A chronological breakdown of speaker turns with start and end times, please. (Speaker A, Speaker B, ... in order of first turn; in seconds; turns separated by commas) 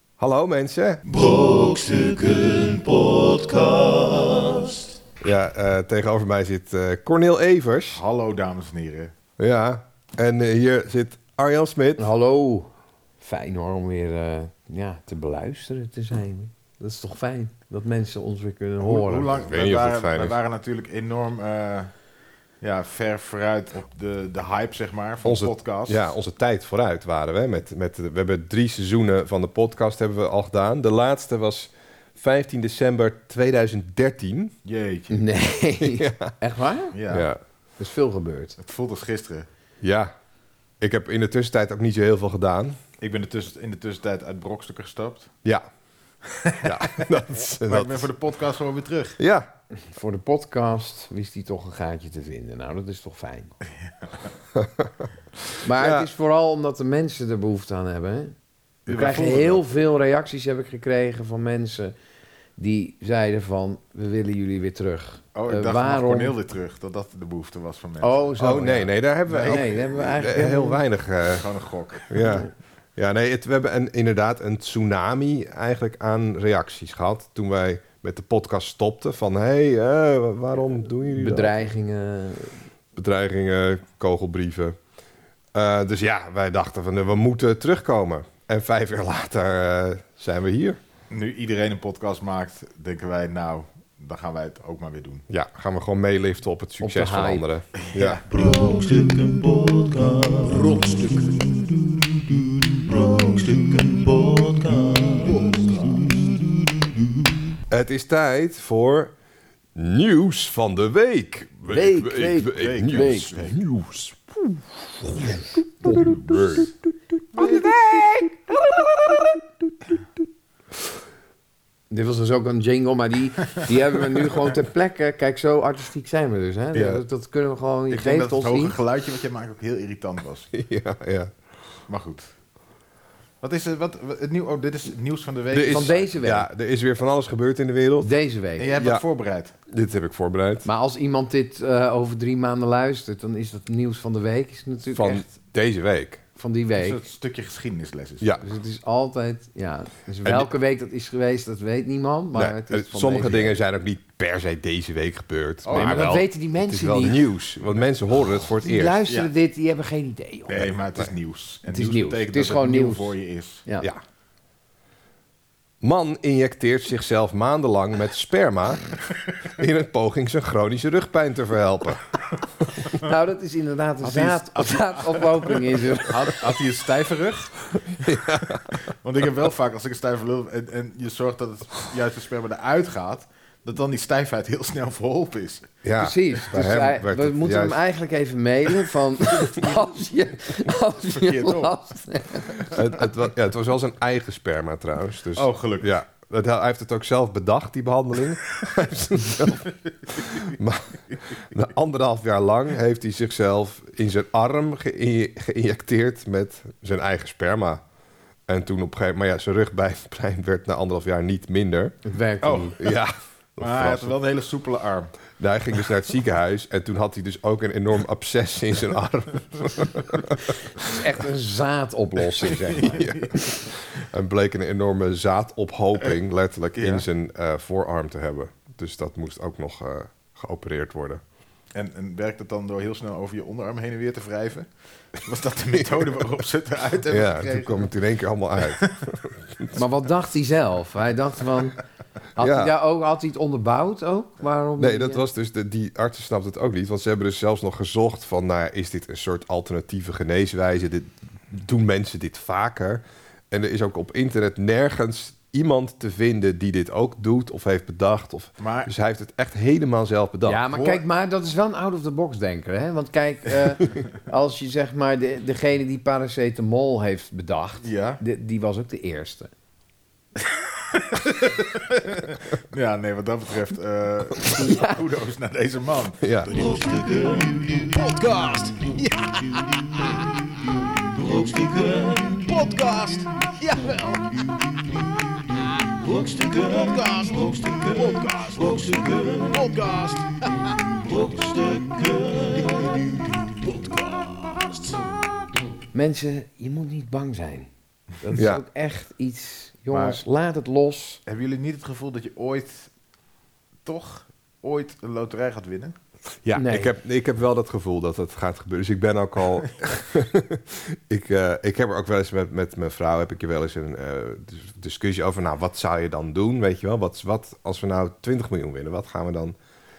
Speaker A: 0.2-1.0, Speaker B: 1.1-5.0, Speaker A: 5.2-8.0, Speaker C: 7.9-9.1, Speaker A: 9.4-12.1, Speaker D: 12.0-19.3, Speaker C: 18.8-21.9, Speaker A: 19.4-20.4, Speaker C: 22.6-26.1, Speaker A: 25.2-34.5, Speaker C: 34.6-35.2, Speaker D: 35.1-37.0, Speaker A: 35.8-36.3, Speaker C: 36.9-37.3, Speaker A: 37.1-37.4, Speaker D: 37.8-38.6, Speaker C: 38.6-39.5, Speaker A: 39.8-40.1, Speaker A: 40.8-42.8, Speaker C: 43.0-45.3, Speaker C: 46.2-47.1, Speaker A: 46.6-48.1, Speaker C: 47.6-49.2, Speaker A: 49.2-49.5, Speaker D: 49.9-53.5, Speaker C: 53.7-54.2, Speaker A: 54.5-55.1, Speaker D: 55.6-58.4, Speaker A: 55.7-56.1, Speaker C: 58.9-59.6, Speaker D: 58.9-61.9, Speaker D: 62.6-66.3, Speaker C: 65.3-68.2, Speaker D: 68.0-70.8, Speaker A: 68.4-71.5, Speaker C: 69.3-69.8, Speaker C: 71.3-72.3, Speaker A: 72.1-81.6, Speaker D: 81.1-82.6, Speaker A: 83.0-84.8, Speaker A: 85.5-90.8, Speaker C: 91.1-95.2, Speaker A: 95.3-98.2, Speaker D: 96.8-97.5, Speaker C: 97.8-98.3, Speaker B: 98.3-106.9, Speaker C: 105.3-106.0, Speaker A: 107.7-109.1, Speaker A: 109.8-116.7, Speaker D: 111.7-113.3, Speaker C: 112.3-113.6, Speaker D: 115.2-116.4, Speaker A: 117.3-119.3, Speaker D: 117.4-118.3, Speaker D: 121.9-128.8, Speaker C: 126.7-127.0, Speaker C: 127.9-130.5, Speaker A: 130.5-131.3, Speaker C: 131.9-132.3, Speaker C: 133.4-136.1, Speaker A: 135.5-138.1, Speaker D: 135.6-136.5, Speaker D: 138.0-138.7, Speaker C: 138.6-139.6, Speaker A: 138.7-139.0, Speaker A: 139.7-140.7, Speaker D: 140.7-145.3, Speaker A: 144.9-146.2, Speaker D: 146.4-147.0, Speaker C: 146.8-148.3, Speaker D: 148.4-153.6, Speaker A: 152.4-159.0, Speaker C: 155.6-156.2, Speaker D: 155.7-157.2, Speaker D: 158.6-160.7, Speaker C: 160.5-163.7, Speaker D: 161.7-163.9, Speaker A: 165.8-168.9, Speaker A: 169.6-172.1, Speaker D: 172.8-176.4, Speaker C: 174.0-178.0, Speaker A: 178.0-178.7, Speaker C: 178.7-185.7, Speaker A: 185.8-187.8, Speaker D: 186.0-192.8, Speaker C: 191.0-191.8, Speaker A: 192.6-207.8, Speaker C: 195.3-195.9, Speaker A: 208.5-212.0, Speaker D: 212.1-212.8, Speaker C: 212.4-212.8, Speaker A: 212.8-214.1, Speaker C: 213.6-215.2, Speaker A: 215.4-220.9, Speaker D: 220.8-223.2, Speaker C: 222.4-223.5, Speaker A: 222.9-231.2, Speaker C: 226.8-227.1, Speaker C: 231.7-237.9, Speaker A: 235.7-236.1, Speaker A: 237.1-239.8, Speaker C: 238.7-239.0, Speaker D: 239.7-241.8, Speaker D: 242.3-245.2, Speaker A: 242.4-242.7, Speaker A: 244.8-260.6, Speaker C: 258.6-258.9, Speaker D: 260.5-269.5, Speaker C: 260.7-261.0, Speaker C: 267.8-268.2, Speaker C: 270.4-276.5, Speaker D: 274.5-275.0, Speaker A: 276.2-276.5, Speaker B: 276.5-278.5, Speaker C: 277.9-280.2, Speaker B: 281.0-282.9, Speaker C: 282.5-284.4, Speaker B: 285.9-289.9, Speaker C: 287.9-288.9, Speaker C: 289.5-290.6, Speaker B: 290.9-294.0, Speaker C: 293.7-295.0, Speaker D: 295.9-297.7, Speaker D: 298.2-301.2, Speaker A: 298.4-298.6, Speaker C: 299.9-300.2, Speaker C: 301.3-302.9, Speaker C: 303.9-306.0, Speaker A: 306.4-319.6, Speaker D: 306.6-306.9